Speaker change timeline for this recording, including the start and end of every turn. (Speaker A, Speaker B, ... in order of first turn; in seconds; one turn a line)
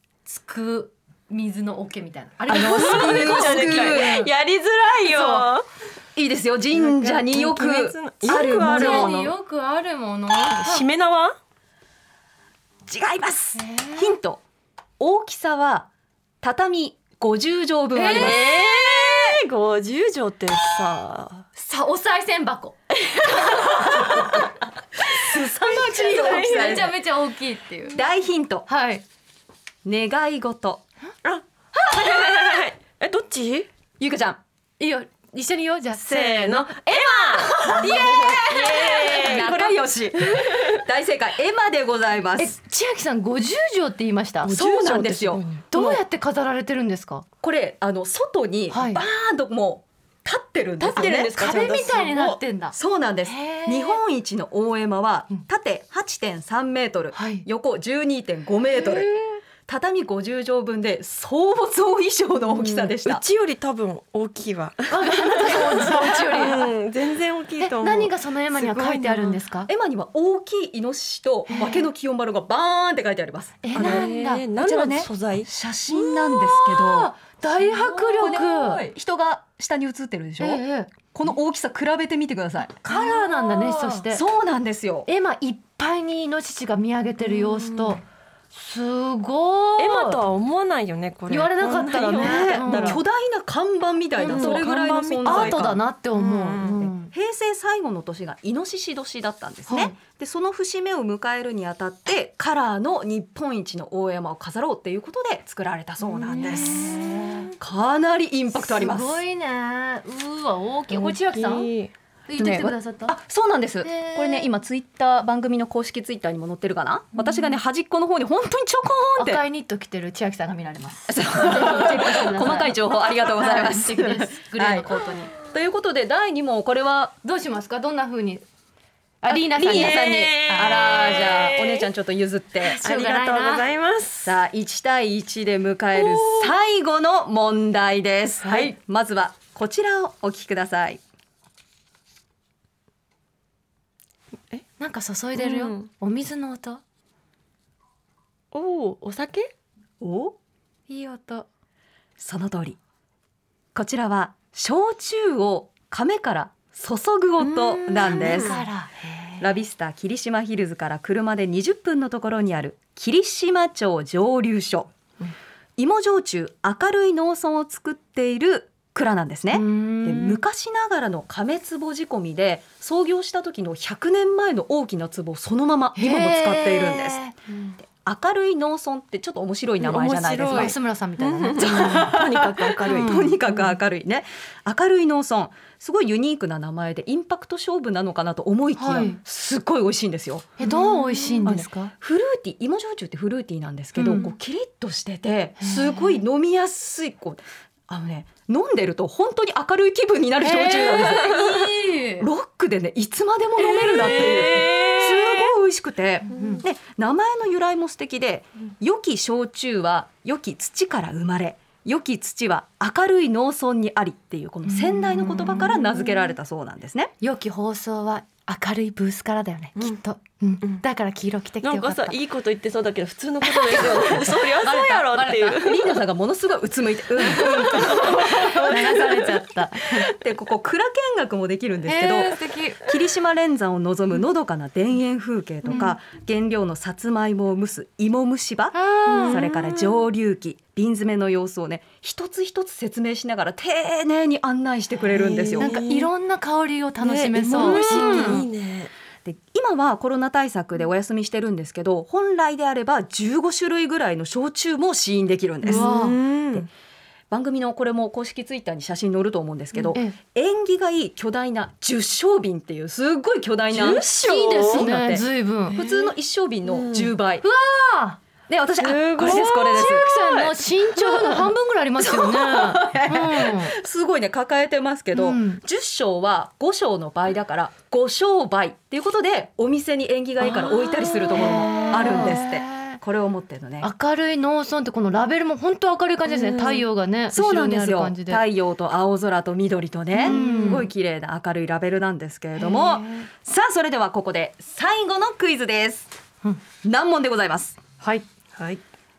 Speaker A: 0.3-4.3
Speaker B: 2.5-4.2
Speaker C: 2.5-5.7
Speaker A: 5.1-5.5
Speaker B: 6.2-9.3
Speaker C: 6.8-9.3
Speaker A: 8.4-10.8
Speaker C: 10.5-11.4
Speaker B: 12.9-14.4
Speaker A: 13.6-14.2
Speaker B: 15.0-15.9
Speaker B: 16.4-18.5
Speaker A: 17.9-18.7
Speaker C: 18.1-21.5
Speaker A: 21.6-22.8
Speaker C: 23.2-24.4
Speaker B: 25.1-27.0
Speaker C: 25.2-26.9
Speaker A: 25.7-28.0
Speaker B: 27.9-28.7
Speaker A: 28.7-29.0
Speaker B: 29.9-30.8
Speaker C: 31.2-33.7
Speaker B: 34.0-34.4
Speaker A: 34.8-39.1
Speaker C: 36.0-40.8
Speaker B: 37.7-42.6
Speaker A: 42.4-44.5
Speaker C: 44.5-45.7
Speaker B: 44.5-46.0
Speaker A: 45.7-47.2
Speaker B: 47.4-51.4
Speaker A: 48.7-49.0
Speaker A: 50.8-52.8
Speaker C: 50.9-52.4
Speaker B: 52.7-59.1
Speaker A: 53.3-54.0
Speaker A: 57.1-57.5
Speaker A: 58.8-59.2
Speaker B: 59.7-63.2
Speaker C: 62.6-69.4
Speaker A: 64.9-66.7
Speaker A: 67.6-69.7
Speaker B: 69.7-77.1
Speaker A: 71.5-71.9
Speaker A: 73.6-74.5
Speaker C: 73.8-75.5
Speaker A: 75.9-78.8
Speaker B: 77.6-82.8
Speaker A: 80.4-80.9
Speaker A: 82.8-84.2
Speaker C: 82.9-84.0
Speaker B: 84.1-85.1
Speaker A: 85.1-88.0
Speaker C: 87.2-88.0
Speaker A: 88.5-90.2
Speaker C: 89.8-93.0
Speaker A: 91.3-93.0
Speaker B: 92.1-95.8
Speaker A: 94.2-94.5
Speaker C: 94.2-96.9
Speaker A: 95.2-97.1
Speaker B: 97.1-109.2
Speaker A: 99.7-100.0
Speaker A: 106.0-107.5
Speaker A: 108.5-111.7
Speaker C: 110.9-111.9
Speaker A: 112.3-113.2
Speaker B: 112.4-119.4
Speaker A: 113.8-114.5
Speaker A: 119.2-125.3
Speaker B: 121.1-127.2
Speaker A: 127.2-128.4
Speaker A: 129.2-130.7
Speaker B: 129.3-132.8
Speaker C: 129.6-131.9
Speaker C: 132.6-134.4
Speaker A: 132.8-133.7
Speaker B: 134.2-141.0
Speaker C: 136.0-136.5
Speaker A: 144.8-146.8
Speaker C: 145.4-145.9
Speaker C: 148.5-149.5
Speaker B: 150.0-150.4
Speaker A: 150.9-151.5
Speaker B: 152.2-152.8
Speaker B: 153.8-158.6
Speaker C: 157.4-158.6
Speaker A: 158.0-159.4
Speaker B: 159.4-164.9
Speaker B: 165.8-177.2
Speaker A: 169.5-170.4
Speaker A: 176.0-177.3
Speaker B: 177.8-180.8
Speaker C: 179.8-183.7
Speaker A: 180.5-182.1
Speaker B: 181.6-190.6
Speaker A: 182.8-183.3
Speaker A: 188.8-189.2
Speaker A: 190.6-191.9
Speaker C: 190.7-191.5
Speaker B: 191.4-217.1
Speaker A: 194.0-194.3
Speaker A: 195.6-195.9
Speaker A: 200.4-202.3
Speaker C: 203.6-205.5
Speaker A: 206.3-206.6
Speaker A: 214.7-215.8
Speaker A: 217.2-222.2
Speaker C: 221.6-225.9
Speaker A: 223.4-225.7
Speaker B: 225.6-229.3
Speaker C: 227.3-229.3
Speaker A: 227.4-230.0
Speaker B: 230.0-245.8
Speaker A: 231.9-232.8
Speaker A: 238.8-239.4
Speaker C: 239.1-239.9
Speaker C: 245.1-246.1
Speaker A: 245.6-248.4
Speaker C: 247.0-248.9
Speaker B: 247.5-248.4
Speaker B: 249.2-255.9
Speaker C: 255.7-256.7
Speaker A: 255.7-256.2
Speaker B: 257.3-267.5
Speaker C: 263.7-264.9
Speaker A: 264.2-265.8
Speaker C: 265.7-266.1
Speaker C: 266.6-267.1
Speaker A: 267.4-268.2
Speaker B: 268.5-270.4
Speaker C: 268.8-270.5
Speaker A: 269.4-273.8
Speaker B: 272.0-283.9
Speaker A: 275.1-275.6
Speaker C: 280.6-282.1
Speaker A: 281.4-283.0
Speaker A: 283.8-288.4
Speaker B: 287.3-296.1
Speaker A: 290.1-290.9
Speaker A: 292.6-293.3
Speaker B: 296.8-297.8
Speaker A: 298.0-298.3
Speaker C: 298.6-298.8